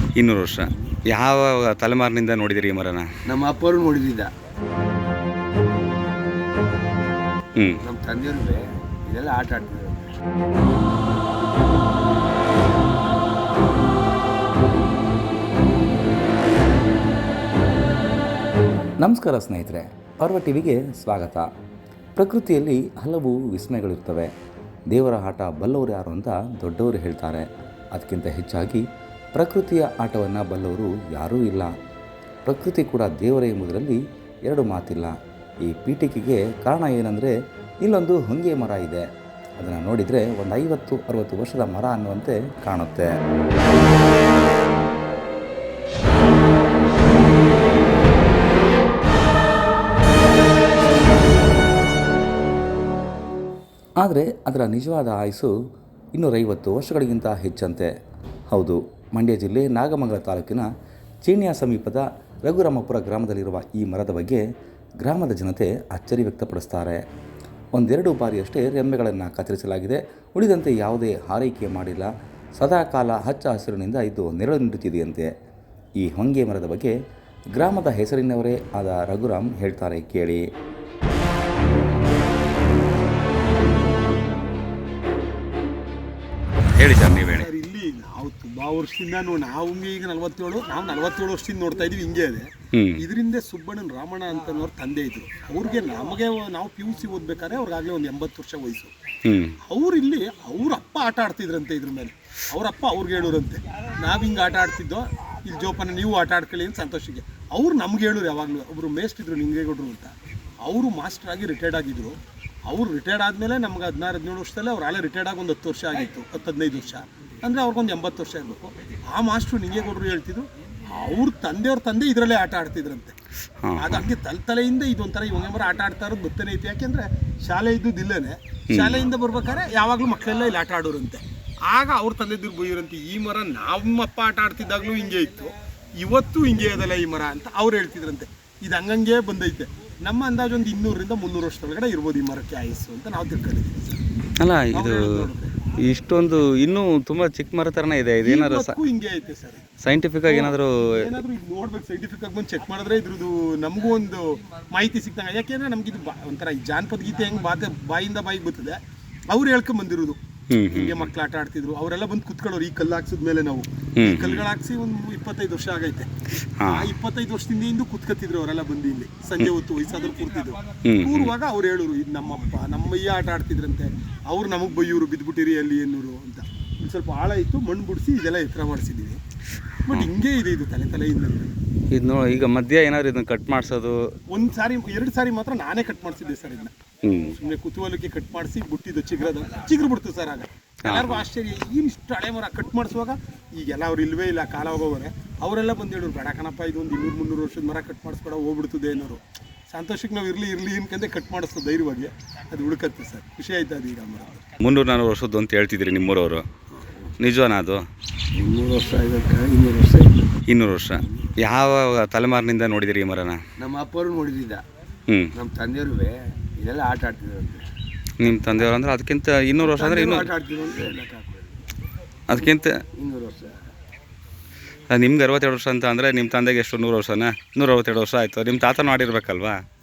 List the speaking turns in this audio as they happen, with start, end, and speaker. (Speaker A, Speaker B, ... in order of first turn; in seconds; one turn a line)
Speaker A: 0.2-3.1
Speaker B: 3.3-4.3
Speaker B: 7.8-10.1
Speaker C: 19.0-21.5
Speaker C: 22.2-24.3
Speaker C: 24.9-31.7
Speaker C: 32.5-37.3
Speaker C: 37.8-39.0
Speaker C: 39.6-43.1
Speaker C: 54.0-55.5
Speaker C: 56.1-57.9
Speaker C: 58.5-60.7
Speaker C: 61.2-64.4
Speaker C: 65.0-67.0
Speaker C: 67.8-75.3
Speaker C: 76.0-76.9
Speaker C: 77.5-80.4
Speaker A: 86.8-87.5
Speaker D: 87.3-98.9
Speaker A: 92.7-93.0
Speaker A: 99.3-99.6
Speaker D: 99.6-112.2
Speaker D: 112.7-123.1
Speaker A: 123.6-124.1
Speaker D: 123.8-144.0
Speaker A: 128.7-129.1
Speaker A: 144.4-145.3
Speaker D: 144.7-145.6
Speaker A: 145.8-148.8
Speaker D: 148.2-149.6
Speaker A: 149.8-150.9
Speaker D: 150.2-158.8
Speaker D: 159.3-166.1
Speaker A: 160.5-161.1
Speaker A: 164.0-164.5
Speaker A: 166.6-166.9
Speaker D: 166.7-179.2
Speaker A: 170.9-171.3
Speaker D: 179.9-181.5
Speaker A: 181.9-184.0
Speaker D: 184.3-186.7
Speaker A: 187.1-187.3
Speaker D: 187.3-204.4
Speaker A: 190.8-191.2
Speaker A: 204.6-206.4
Speaker A: 207.2-207.8
Speaker B: 208.3-210.1
Speaker A: 210.5-213.4
Speaker B: 213.6-214.6
Speaker B: 215.3-217.6
Speaker A: 218.2-220.3
Speaker B: 219.6-221.6
Speaker A: 222.3-222.8
Speaker B: 222.3-223.6
Speaker A: 224.9-229.6